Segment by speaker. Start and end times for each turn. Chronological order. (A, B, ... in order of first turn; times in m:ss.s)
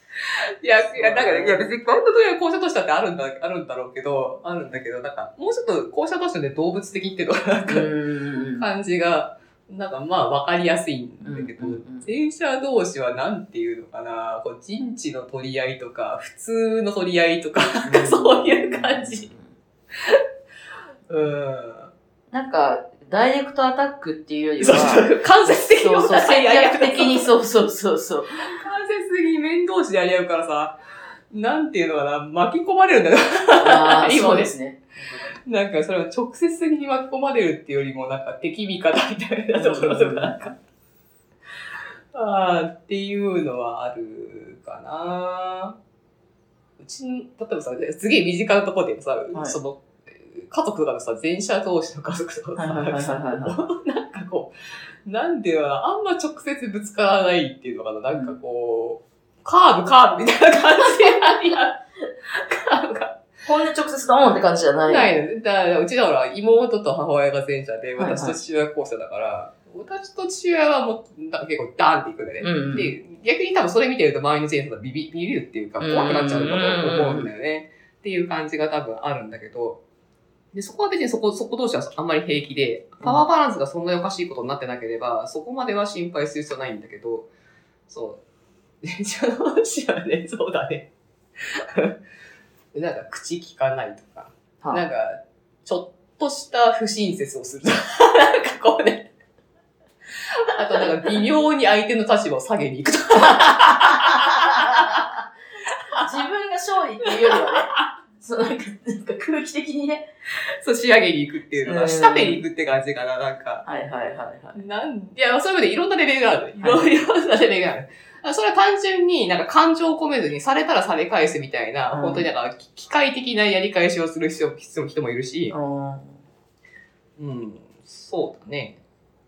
0:00.2-0:07.9 A
0:00.9-0:01.7 B
0:07.7-0:08.6 B
0:08.6-0:19.3 A
0:11.2-0:12.1 B
0:17.8-0:19.5 B
0:21.1-0:21.9 A
0:22.3-0:28.4 B
0:24.6-0:27.3 A
0:28.4-0:30.8 A
0:31.3-0:34.5 A
0:33.5-0:35.3 B
0:35.2-0:40.5 A
0:39.5-0:40.5 B
0:42.1-0:45.8 A
0:46.8-0:54.5 A
0:52.6-0:53.6 B
0:55.0-1:03.2 A
1:03.4-1:05.1 B
1:04.8-1:19.8 A
1:08.0-1:08.4 B
1:12.4-1:12.9 B
1:15.8-1:17.3 B
1:20.5-1:27.3 A
1:27.9-1:28.2 A
1:28.8-1:32.0 A
1:32.7-1:39.1 A
1:40.5-1:45.0 A
1:43.9-1:45.0 B
1:45.9-1:50.1 B
1:47.2-1:47.8 A
1:50.5-1:53.6 A
1:51.5-1:52.4 B
1:53.6-1:54.6 B
1:54.5-2:05.6 A
1:56.6-1:56.9 B
2:01.9-2:02.3 B
2:05.5-2:06.2 B
2:07.2-2:08.8 A